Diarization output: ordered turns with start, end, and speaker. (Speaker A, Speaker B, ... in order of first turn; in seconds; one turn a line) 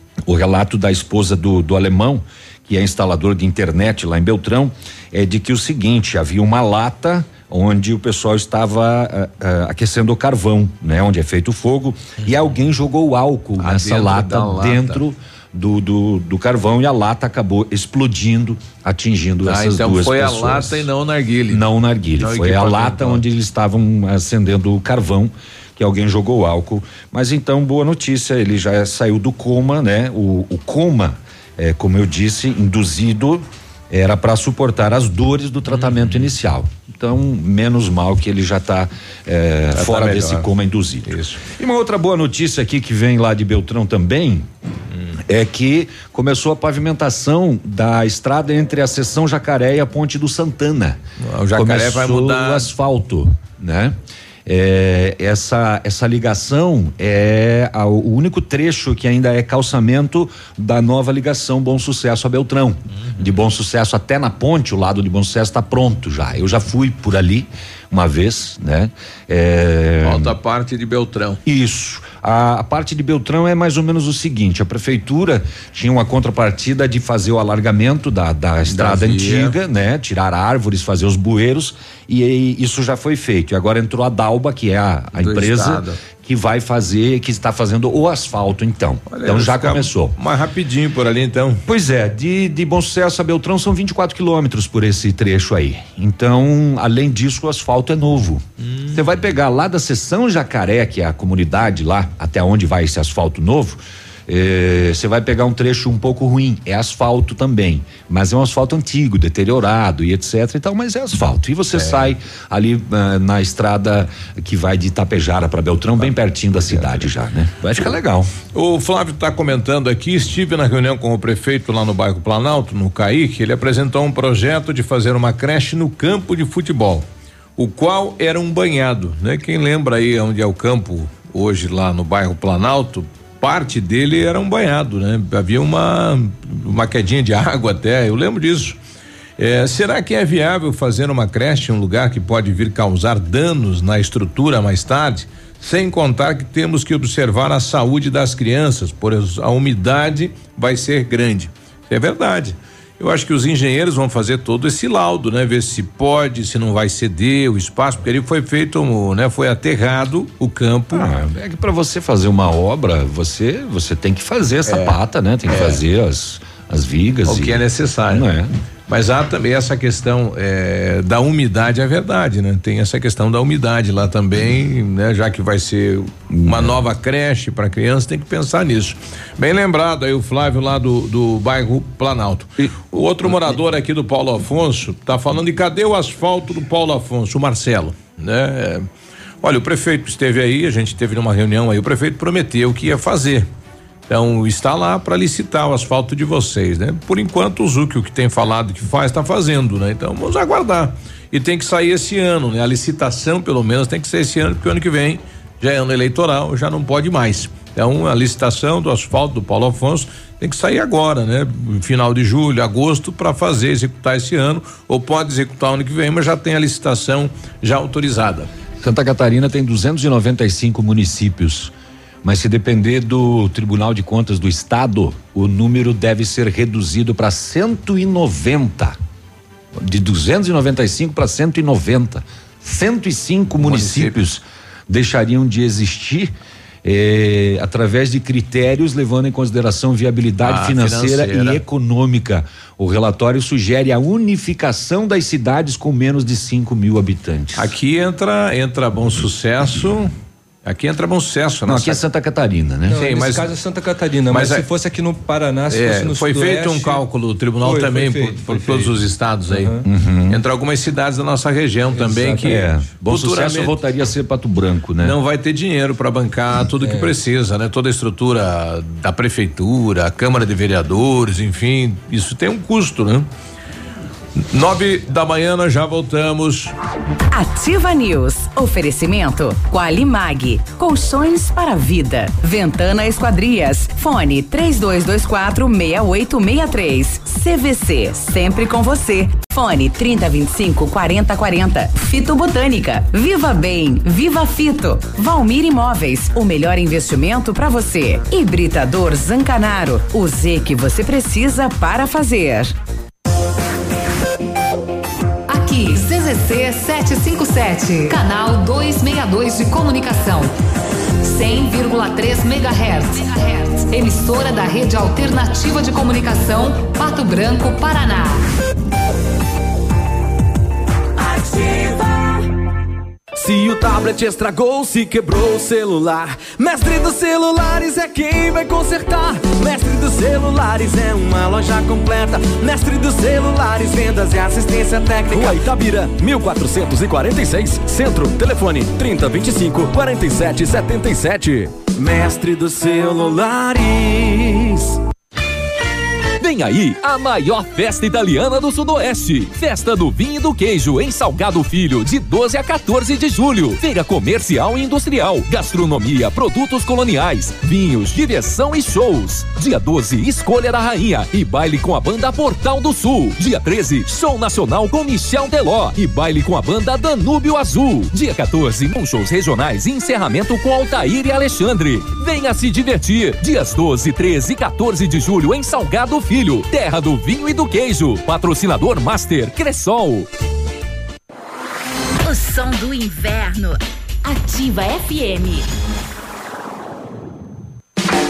Speaker A: 0.3-20.9
Speaker B: 13.6-15.0
Speaker B: 19.4-21.7
Speaker A: 21.5-44.5
Speaker B: 22.2-23.2
Speaker B: 35.8-36.3
Speaker B: 39.7-40.5
Speaker B: 41.1-41.4
Speaker A: 45.3-51.0
Speaker B: 51.2-52.7
Speaker A: 51.5-70.3
Speaker B: 70.0-71.4
Speaker A: 71.5-90.2
Speaker B: 78.7-79.5
Speaker B: 85.2-86.0
Speaker B: 89.1-91.6
Speaker A: 91.7-118.3
Speaker B: 98.6-99.0
Speaker B: 111.7-112.1
Speaker B: 116.0-117.1
Speaker B: 118.5-127.1
Speaker B: 127.6-138.8
Speaker B: 139.4-161.1
Speaker A: 160.9-168.5
Speaker B: 164.7-165.0
Speaker B: 165.5-165.8
Speaker B: 167.3-168.2
Speaker B: 168.9-188.9
Speaker A: 176.3-176.8
Speaker B: 189.4-193.5
Speaker B: 194.1-218.5
Speaker A: 218.8-229.0
Speaker A: 229.8-236.3
Speaker B: 233.6-234.2
Speaker A: 236.8-247.7
Speaker B: 240.4-241.6
Speaker B: 247.6-250.1
Speaker B: 250.7-252.0
Speaker A: 251.7-253.0
Speaker C: 252.9-257.0
Speaker B: 252.9-253.5
Speaker B: 254.3-254.6
Speaker B: 255.7-259.8
Speaker C: 257.6-258.9
Speaker C: 259.5-259.8
Speaker A: 259.9-260.4
Speaker B: 260.3-263.8
Speaker C: 261.9-262.6
Speaker A: 262.4-265.2
Speaker B: 265.0-273.3
Speaker C: 266.8-267.1
Speaker B: 274.4-276.7
Speaker D: 277.3-302.8
Speaker E: 305.5-310.6
Speaker E: 311.2-318.4
Speaker F: 321.2-322.4
Speaker G: 346.4-380.3
Speaker F: 382.2-385.7